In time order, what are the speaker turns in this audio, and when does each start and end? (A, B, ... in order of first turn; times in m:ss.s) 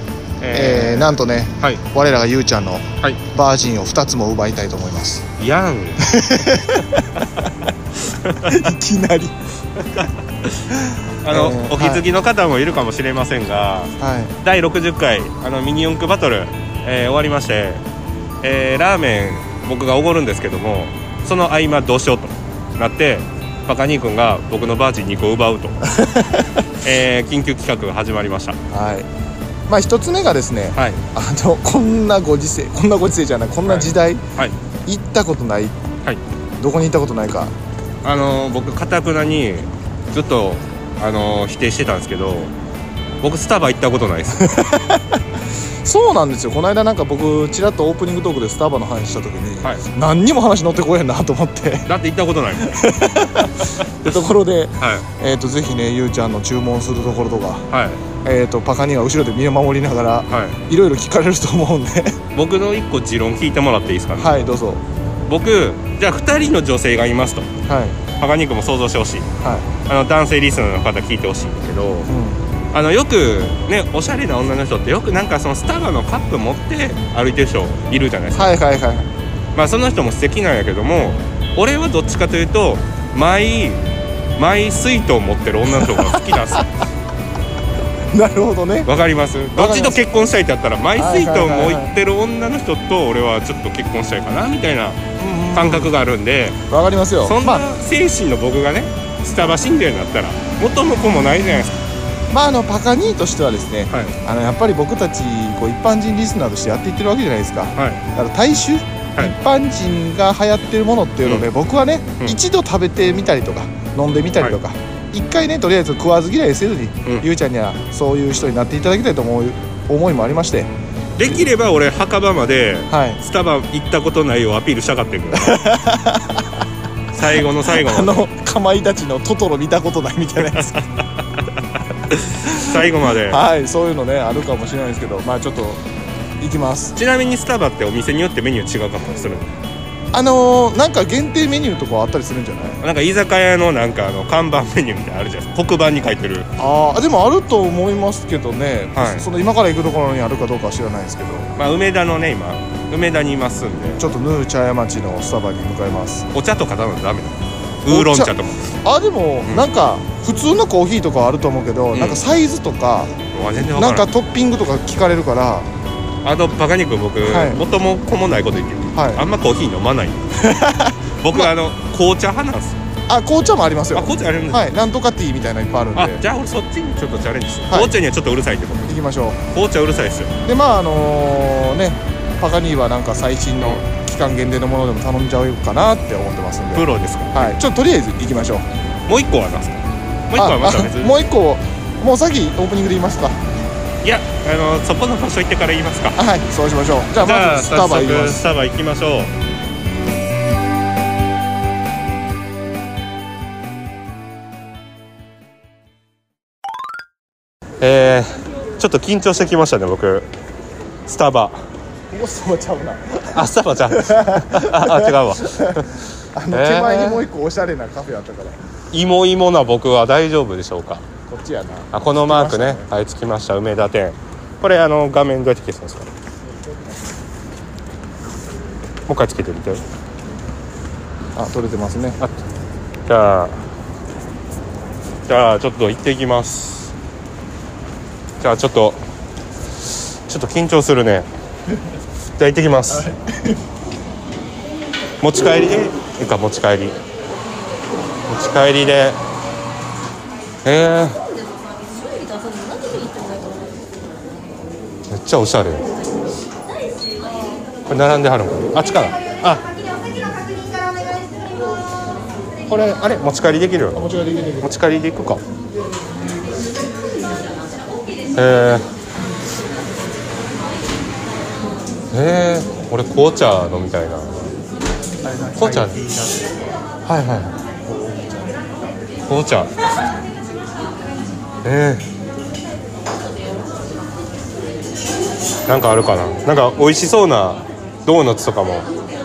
0:00.4-0:01.8 A
0:00.5-0:05.2 B
0:05.4-0:06.0 A
0:06.0-0:07.2 B
0:08.2-0:08.7 A
0:08.3-0:09.3 B
0:09.8-0:17.8 A
0:11.3-0:12.0 B
0:14.0-0:14.4 B
0:18.4-0:25.8 A
0:25.9-0:26.6 B
0:26.8-0:28.6 A
0:28.7-0:29.1 B
0:29.7-0:34.2 B
0:30.8-0:31.0 A
0:33.6-0:34.6 A
0:34.8-0:35.8 B
0:36.6-0:37.5 B
0:38.0-0:42.5 A
0:43.2-0:44.5 A
0:44.5-0:45.0 B
0:45.8-0:51.9 B
0:51.9-0:52.8 A
0:52.6-0:57.7 B
0:54.0-0:55.1 A
0:57.7-0:58.0 A
0:58.2-1:02.2 B
1:00.3-1:00.6 A
1:02.3-1:04.5 A
1:04.2-1:04.8 B
1:05.3-1:07.5 A
1:07.7-1:08.0 B
1:08.1-1:09.3 A
1:09.4-1:09.7 B
1:09.9-1:12.1 A
1:12.1-1:12.4 B
1:12.7-1:18.6 A
1:18.3-1:19.1 B
1:19.6-1:23.8 A
1:24.4-1:26.7 A
1:25.7-1:26.6 B
1:28.1-1:28.9 B
1:28.8-1:36.6 A
1:29.6-1:30.0 B
1:31.0-1:31.9 B
1:35.2-1:35.9 B
1:36.7-1:37.6 B
1:37.2-1:41.8 A
1:42.3-2:00.7 B
1:43.9-1:44.2 A
1:47.8-1:48.0 A
1:51.2-1:51.5 A
2:01.2-2:05.7 A
2:02.9-2:03.2 B
2:05.3-2:06.4 B
2:07.1-2:08.2 A
2:07.7-2:10.8 B
2:10.4-2:10.8 A
2:12.1-2:13.4 A
2:12.4-2:15.8 B
2:16.4-2:17.0 B
2:17.0-2:19.5 A
2:20.1-2:22.8 B
2:22.8-2:26.5 A
2:26.6-2:31.5 B
2:28.9-2:29.3 A
2:31.6-2:34.0 A
2:34.0-2:36.3 B
2:36.3-2:38.7 A
2:37.9-2:45.7 B
2:41.9-2:42.2 A
2:43.3-2:44.1 A
2:46.2-2:50.5 A
2:47.3-2:47.6 B
2:48.9-2:49.2 B
2:50.4-2:51.5 B
2:51.2-2:52.8 A
2:53.1-2:56.2 B
2:53.9-2:54.7 A
2:56.0-2:59.0 A
2:57.7-2:57.9 B
2:58.9-2:59.4 B
2:59.5-3:00.3 A
3:00.4-3:08.7 B
3:03.6-3:03.8 A
3:06.8-3:07.5 A
3:09.1-3:11.2 A
3:10.4-3:13.4 B
3:14.0-3:16.2 A
3:16.2-3:18.4 B
3:17.1-3:19.3 A
3:27.8-3:30.3 A
3:31.1-3:31.7 A
3:32.1-3:38.6 B
3:33.3-3:35.9 A
3:36.5-3:37.3 A
3:38.9-3:41.0 A
3:41.3-3:42.9 B
3:41.9-3:46.1 A
3:49.1-3:49.8 A
3:51.4-3:52.2 B
3:53.1-3:53.6 A
3:55.3-3:56.9 A
3:58.4-3:59.0 A
4:00.3-4:01.3 A
4:02.4-4:03.1 A
4:02.9-4:03.6 B
4:05.2-4:07.0 A
4:08.3-4:09.2 A
4:10.6-4:11.2 A
4:15.1-4:15.9 A
4:17.9-4:19.6 A
4:22.7-4:24.1 A
4:24.0-4:24.7 B
4:24.6-4:25.4 A
4:28.4-4:28.9 A
4:32.1-4:34.6 A
4:35.3-4:36.4 B
4:35.5-4:36.1 A
4:37.0-4:37.6 A
4:37.9-4:38.5 B
4:39.3-4:39.7 A
4:41.6-4:42.1 A
4:45.6-4:48.9 A